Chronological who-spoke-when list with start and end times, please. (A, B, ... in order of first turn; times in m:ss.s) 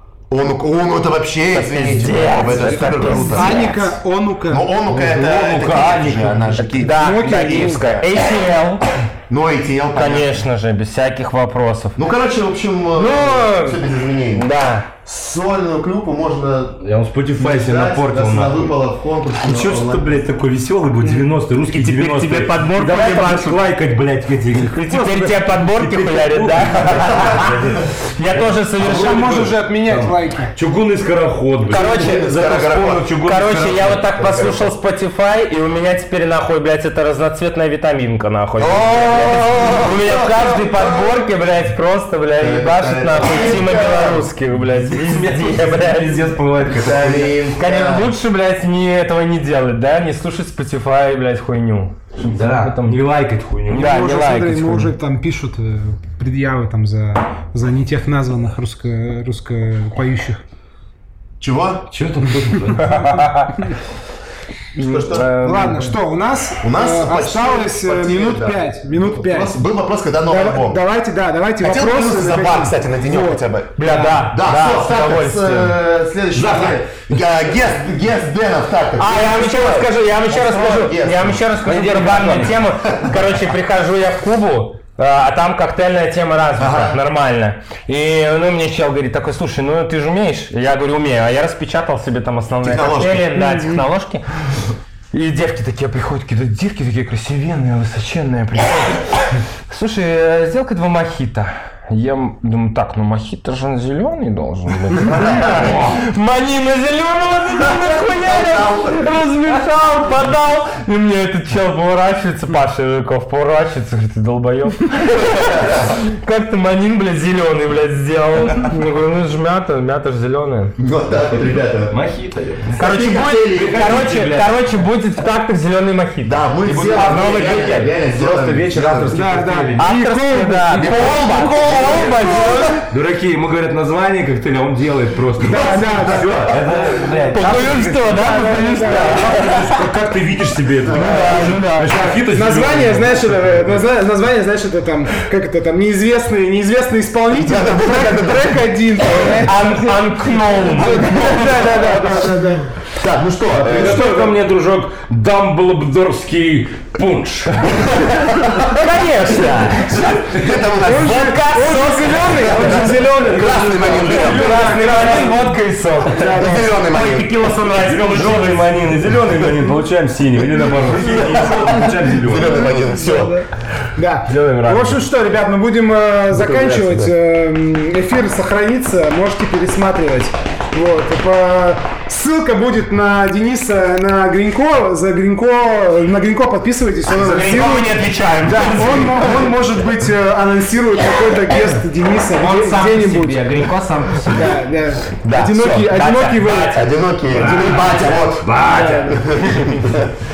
0:00.3-0:03.7 A
0:01.5-0:03.9 B
0:03.1-0:04.7 C
0:04.5-0:08.3 A
0:04.9-0:06.6 D
0:06.6-0:08.8 B
0:06.9-0:08.0 C
0:09.3-0:10.4 A
0:09.9-0:12.0 B
0:12.0-0:14.5 A
0:12.9-0:13.8 B
0:14.3-0:14.9 B
0:15.0-0:16.8 A
0:16.8-0:18.7 D
0:17.3-0:20.2 A
0:19.4-0:24.8 D
0:21.0-0:23.7 B
0:24.7-0:27.5 B
0:24.9-0:25.4 C
0:25.6-0:28.5 D
0:27.1-0:27.5 A
0:28.1-0:29.6 B
0:28.8-0:30.5 C
0:29.9-0:34.1 D
0:31.7-0:32.4 B
0:31.7-0:33.1 A
0:33.2-0:46.2 B
0:34.0-0:34.7 A
0:38.6-0:41.2 A
0:42.4-0:44.3 A
0:44.9-0:47.4 D
0:46.7-0:48.1 A
0:47.5-0:53.0 B
0:52.2-0:53.9 D
0:53.7-0:54.9 B
0:53.7-1:00.4 C
1:01.4-1:01.9 A
1:01.9-1:03.2 D
1:02.8-1:03.6 B
1:04.8-1:05.9 B
1:04.8-1:05.4 A
1:05.4-1:09.7 C
1:06.6-1:10.8 A
1:10.2-1:14.3 C
1:11.6-1:23.3 A
1:13.8-1:15.8 B
1:16.3-1:16.8 D
1:19.0-1:34.2 B
1:21.6-1:22.5 D
1:26.6-1:27.0 A
1:32.6-1:33.6 A
1:35.1-2:00.7 B
1:45.0-1:46.0 A
1:47.6-1:49.2 A
1:55.4-1:55.9 A
2:00.8-2:02.0 A
2:01.9-2:04.9 D
2:02.8-2:04.1 A
2:02.8-2:07.9 B
2:06.2-2:09.3 A
2:06.6-2:09.9 D
2:09.1-2:12.7 C
2:09.8-2:12.8 B
2:10.7-2:12.3 D
2:10.8-2:12.2 A
2:12.9-2:18.0 D
2:15.4-2:16.9 A
2:15.4-2:19.9 C
2:17.3-2:19.8 B
2:18.8-2:23.8 D
2:20.9-2:22.0 B
2:20.9-2:21.4 A
2:21.8-2:30.0 C
2:27.4-2:28.6 A
2:29.2-2:32.1 B
2:30.6-2:32.7 C
2:32.9-2:34.1 A
2:33.5-2:37.8 D
2:33.7-2:34.4 C
2:38.3-2:40.2 B
2:40.1-2:40.5 D
2:40.2-2:41.4 A
2:40.7-2:45.5 C
2:40.9-2:42.8 B
2:42.5-2:44.7 A
2:42.7-2:45.4 D
2:44.1-2:48.8 B
2:46.0-2:46.9 C
2:46.2-2:47.3 A
2:47.8-2:52.6 D
2:51.0-2:53.4 A
2:52.4-2:53.4 C
2:54.0-3:13.4 C
2:54.3-2:55.0 D
2:56.3-2:57.1 A
3:07.1-3:09.5 B
3:12.4-3:14.5 B
3:14.2-3:16.8 C
3:15.2-3:18.0 B
3:16.7-3:18.6 A
3:17.4-3:19.2 D
3:18.7-3:19.1 C
3:18.7-3:19.7 B
3:19.1-3:20.1 A